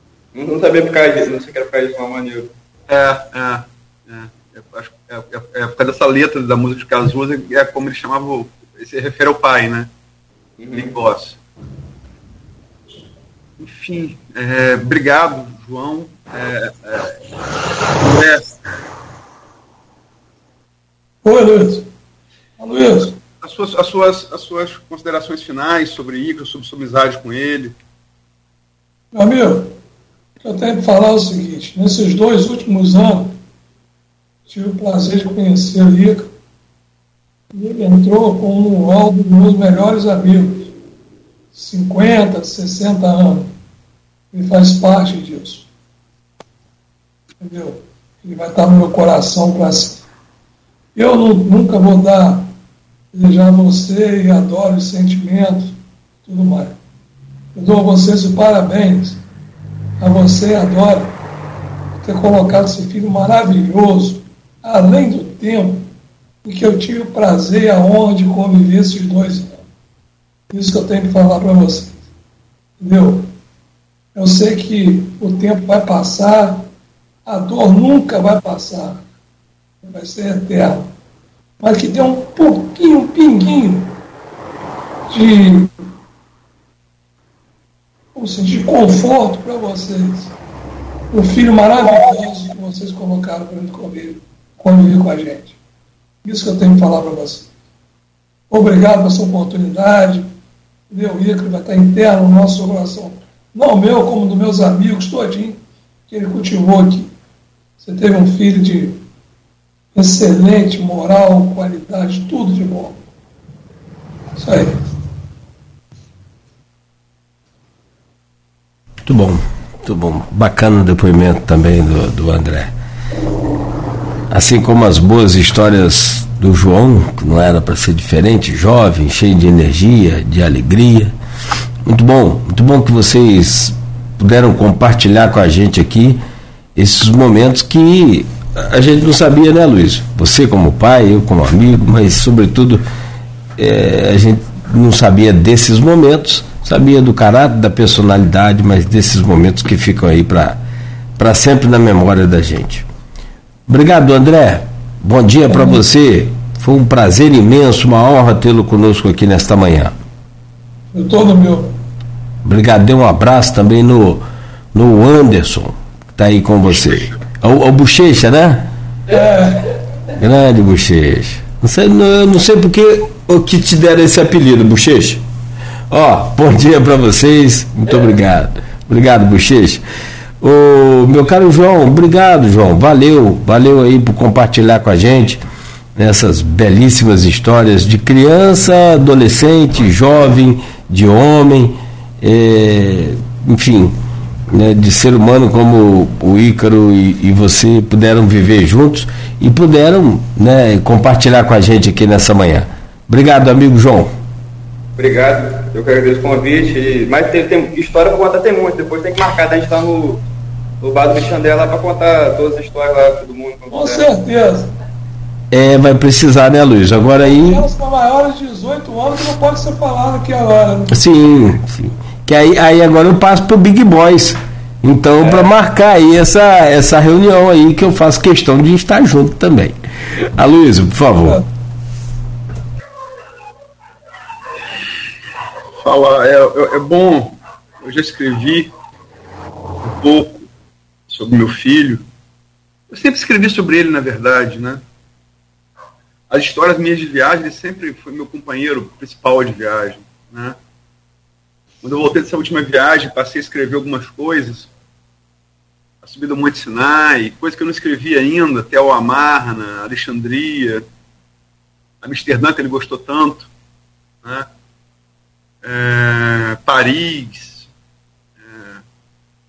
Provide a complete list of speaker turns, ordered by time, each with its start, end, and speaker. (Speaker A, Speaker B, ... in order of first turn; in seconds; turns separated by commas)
Speaker A: 0.3-2.5, Speaker B: 2.9-9.9, Speaker A: 10.6-10.9, Speaker B: 10.7-11.4, Speaker B: 13.6-17.2, Speaker B: 17.9-18.5, Speaker C: 21.2-21.9, Speaker C: 22.6-23.2, Speaker B: 23.4-27.8, Speaker C: 29.1-29.8, Speaker C: 30.4-33.4, Speaker C: 34.5-36.3, Speaker C: 37.5-40.7, Speaker C: 41.5-43.5, Speaker C: 44.3-45.7, Speaker C: 47.4-50.0, Speaker C: 50.9-52.5, Speaker C: 53.1-56.8, Speaker C: 57.5-59.2, Speaker C: 60.0-61.2, Speaker C: 62.0-65.9, Speaker C: 66.4-69.6, Speaker C: 70.5-72.0, Speaker C: 72.8-73.3, Speaker C: 74.1-76.7, Speaker C: 77.2-79.0, Speaker C: 79.8-80.9, Speaker C: 81.6-84.0, Speaker C: 85.1-85.7, Speaker C: 88.1-90.3, Speaker C: 91.1-95.6, Speaker C: 96.2-97.5, Speaker C: 98.5-100.3, Speaker C: 100.9-107.1, Speaker C: 107.8-109.0, Speaker C: 109.9-113.0, Speaker C: 114.3-114.8, Speaker D: 119.0-122.7, Speaker D: 124.3-131.1, Speaker D: 131.8-136.2, Speaker D: 136.8-142.8, Speaker D: 143.6-150.6, Speaker D: 151.2-152.9, Speaker D: 153.7-159.9, Speaker C: 155.5-155.8, Speaker C: 160.9-161.8, Speaker D: 162.4-168.7, Speaker C: 169.1-169.7, Speaker D: 170.2-175.2, Speaker D: 175.9-179.8, Speaker D: 180.4-185.4, Speaker D: 186.0-193.9, Speaker D: 194.5-204.1, Speaker A: 205.0-210.2, Speaker A: 210.8-214.1, Speaker C: 213.7-214.7, Speaker D: 215.5-217.7, Speaker C: 217.2-220.9, Speaker D: 220.9-229.8, Speaker D: 230.3-231.4, Speaker B: 235.8-238.7, Speaker B: 239.8-240.5, Speaker B: 241.1-242.0, Speaker B: 242.9-244.8, Speaker B: 246.3-250.6, Speaker B: 251.8-254.7, Speaker B: 256.0-260.8, Speaker B: 262.0-263.5, Speaker B: 265.6-267.7, Speaker B: 268.4-268.8